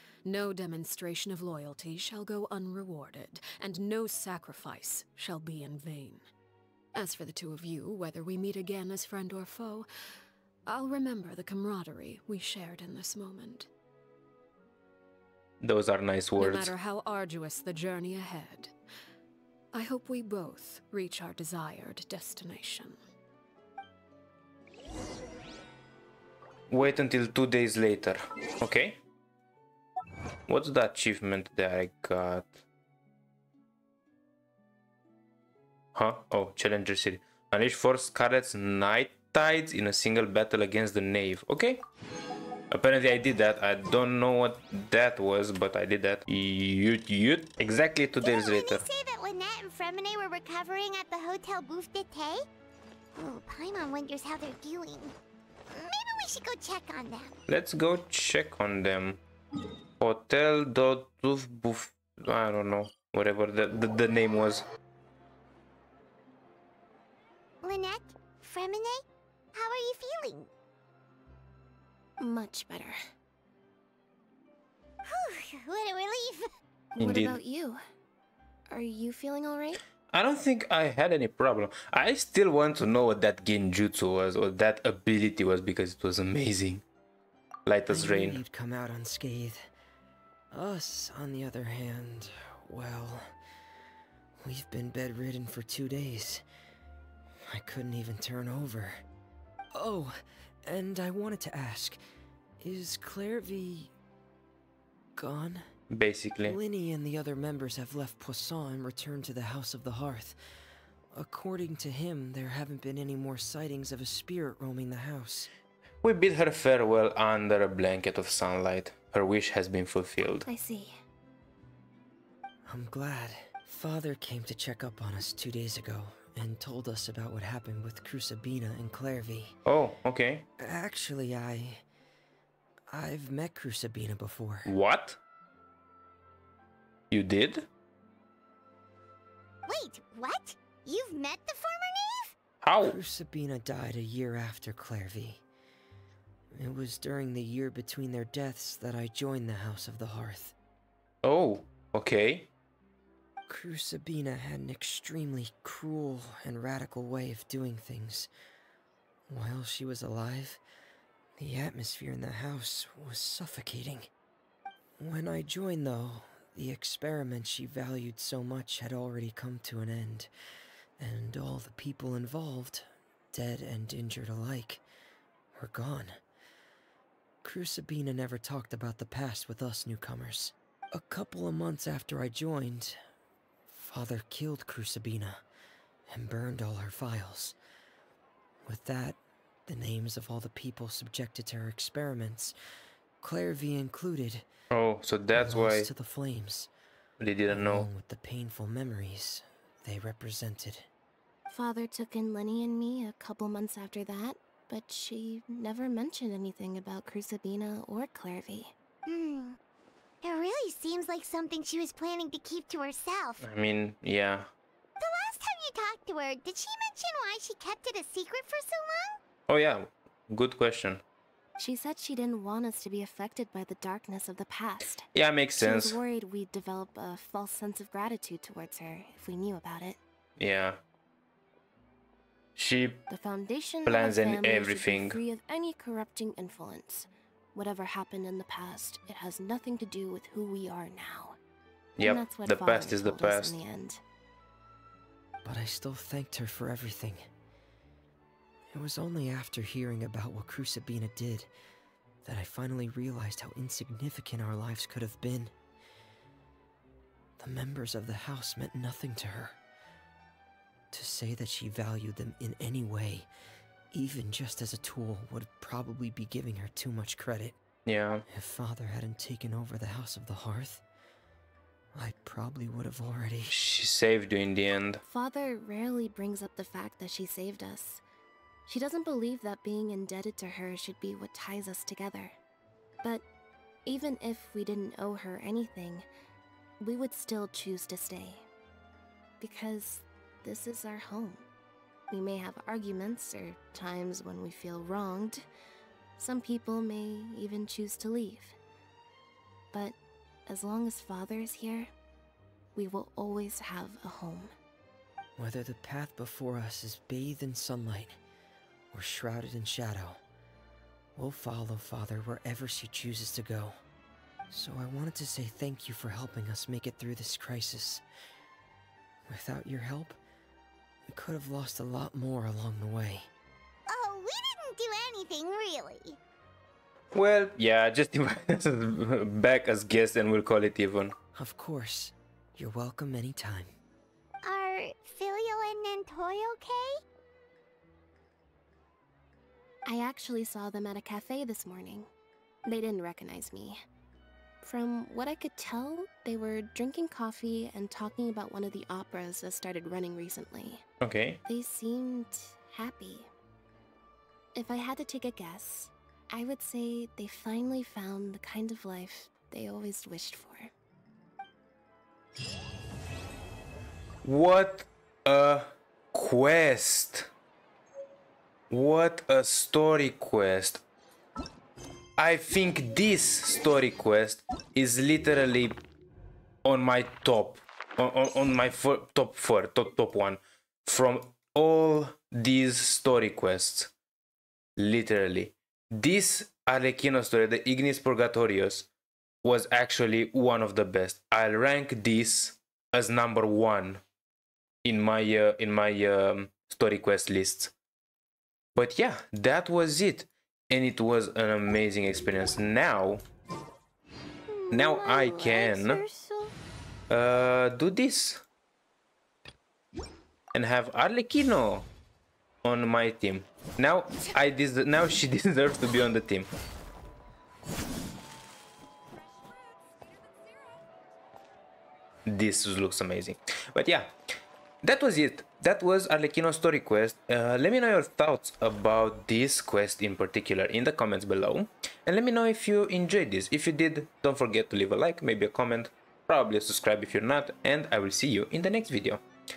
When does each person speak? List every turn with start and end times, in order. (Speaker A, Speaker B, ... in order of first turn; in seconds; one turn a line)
Speaker A: 0.2-6.2
Speaker A: 7.0-9.9
Speaker A: 10.7-13.7
Speaker B: 15.6-16.7
Speaker A: 16.4-18.7
Speaker A: 19.7-23.0
Speaker B: 26.7-29.0
Speaker B: 30.5-32.5
Speaker B: 36.0-41.8
Speaker B: 42.7-48.9
Speaker C: 48.2-52.4
Speaker C: 53.2-55.1
Speaker C: 55.8-57.3
Speaker B: 57.5-59.2
Speaker B: 60.0-64.7
Speaker C: 67.7-69.0
Speaker C: 69.6-70.5
Speaker D: 72.2-73.0
Speaker C: 75.1-76.4
Speaker D: 77.0-77.8
Speaker B: 77.0-77.4
Speaker D: 78.7-79.8
Speaker B: 80.1-86.8
Speaker B: 87.7-88.4
Speaker E: 87.9-89.6
Speaker E: 90.5-93.3
Speaker E: 94.4-96.4
Speaker E: 97.5-99.0
Speaker E: 99.7-102.0
Speaker E: 102.6-103.9
Speaker E: 105.2-105.7
Speaker B: 105.9-106.6
Speaker E: 106.4-110.4
Speaker E: 111.1-115.5
Speaker B: 116.0-120.5
Speaker D: 120.2-120.9
Speaker E: 122.7-129.6
Speaker B: 129.7-130.5
Speaker E: 130.6-131.8
Speaker E: 132.9-134.7
Speaker B: 134.7-135.2
Speaker B: 137.1-137.7
Speaker C: 139.7-142.3
Speaker B: 142.6-143.0
Speaker E: 142.8-145.4
Speaker E: 146.5-150.5
Speaker B: 151.2-152.5
Speaker E: 153.5-158.3
Speaker E: 159.3-160.6
Speaker E: 161.4-164.1
Speaker E: 165.0-170.3
Speaker E: 171.0-174.8
Speaker E: 175.6-176.2
Speaker E: 177.4-183.0
Speaker E: 183.7-185.4
Speaker E: 186.1-187.6
Speaker E: 188.6-192.5
Speaker E: 193.2-194.4
Speaker B: 194.7-195.9
Speaker E: 195.3-196.7
Speaker B: 197.2-197.9
Speaker E: 197.5-200.9
Speaker D: 201.5-208.7
Speaker C: 209.1-209.5
Speaker C: 210.2-213.4
Speaker B: 213.4-214.5
Speaker C: 215.0-219.2
Speaker B: 219.5-221.0
Speaker D: 221.6-230.0
Speaker B: 225.1-226.0
Speaker B: 230.4-230.8
Speaker B: 232.6-233.1
Speaker D: 233.1-241.4
Speaker B: 233.8-235.2
Speaker B: 242.0-243.6
Speaker D: 242.0-244.0
Speaker E: 245.4-247.3
Speaker E: 248.7-251.5
Speaker E: 252.2-255.5
Speaker E: 257.4-259.6
Speaker E: 260.9-263.3
Speaker E: 263.9-267.6
Speaker B: 267.9-268.2
Speaker E: 268.3-270.8
Speaker E: 271.9-273.5
Speaker B: 273.5-275.0
Speaker D: 275.0-278.0
Speaker D: 278.7-282.4
Speaker D: 283.9-286.1
Speaker D: 286.8-288.4
Speaker D: 289.4-291.5
Speaker D: 292.1-295.5
Speaker D: 296.2-298.6
Speaker D: 300.5-301.9
Speaker D: 302.8-304.5
Speaker E: 305.4-308.2
Speaker E: 308.9-310.2
Speaker E: 311.2-313.8
Speaker E: 314.5-318.0
Speaker E: 319.3-320.2
Speaker E: 321.1-323.3
Speaker C: 323.9-326.1
Speaker B: 327.1-331.1
Speaker E: 331.4-333.7
Speaker C: 334.5-336.9
Speaker D: 339.9-342.1
Speaker D: 342.6-343.8
Speaker D: 344.6-350.8
Speaker B: 351.0-351.4
Speaker D: 351.4-353.3
Speaker D: 354.5-360.7
Speaker B: 364.2-367.3
Speaker B: 368.7-370.8
Speaker B: 372.2-375.8
Speaker B: 376.6-383.9
Speaker B: 384.8-388.9
Speaker B: 389.4-394.0
Speaker B: 394.8-397.7
Speaker B: 398.8-403.2
Speaker C: 404.5-406.5
Speaker B: 404.7-406.0
Speaker B: 407.1-408.4
Speaker B: 410.5-411.9
Speaker B: 412.6-416.5
Speaker B: 422.3-424.1
Speaker B: 424.8-439.2